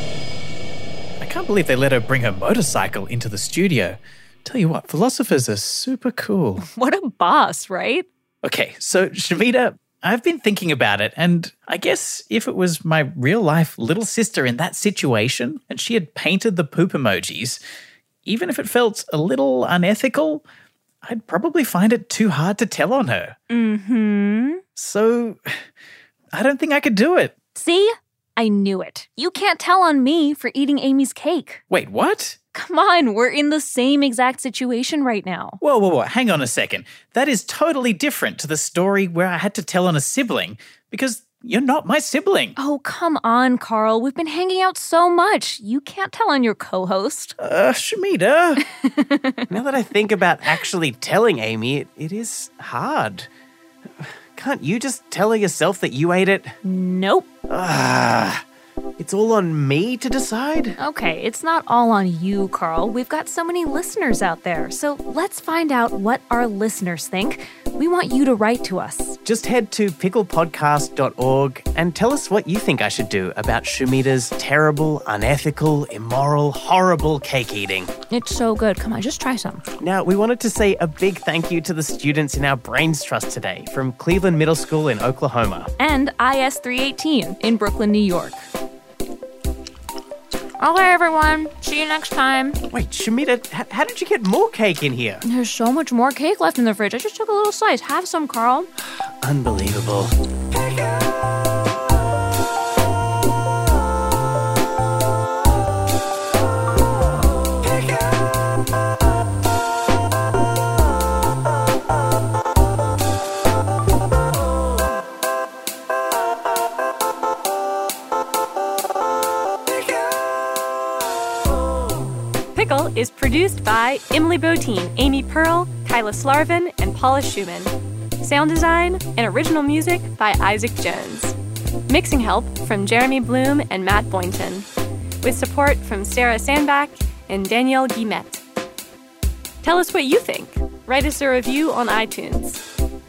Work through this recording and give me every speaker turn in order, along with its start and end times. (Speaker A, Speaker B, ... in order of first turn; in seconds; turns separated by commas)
Speaker A: 1.2-6.7, Speaker B: 6.6-8.1, Speaker A: 8.4-17.6, Speaker A: 18.2-20.4, Speaker A: 21.0-23.4, Speaker B: 23.5-24.6, Speaker A: 24.7-25.4, Speaker A: 26.3-27.4, Speaker B: 27.5-31.6, Speaker A: 31.7-32.4, Speaker B: 32.5-35.6, Speaker A: 35.6-42.5, Speaker B: 42.5-47.3, Speaker A: 47.4-48.6, Speaker B: 49.0-49.5, Speaker C: 49.5-53.3, Speaker C: 54.0-56.5, Speaker B: 56.6-57.3, Speaker C: 57.5-58.4, Speaker C: 59.0-60.8, Speaker B: 60.8-69.2, Speaker C: 69.2-77.9, Speaker B: 78.1-79.6, Speaker C: 79.8-85.7, Speaker B: 85.8-88.5, Speaker B: 90.6-92.6, Speaker C: 92.7-95.2, Speaker B: 95.2-98.7, Speaker C: 99.2-100.2, Speaker D: 122.5-131.3, Speaker D: 131.9-134.7, Speaker D: 135.2-138.4, Speaker D: 139.6-142.6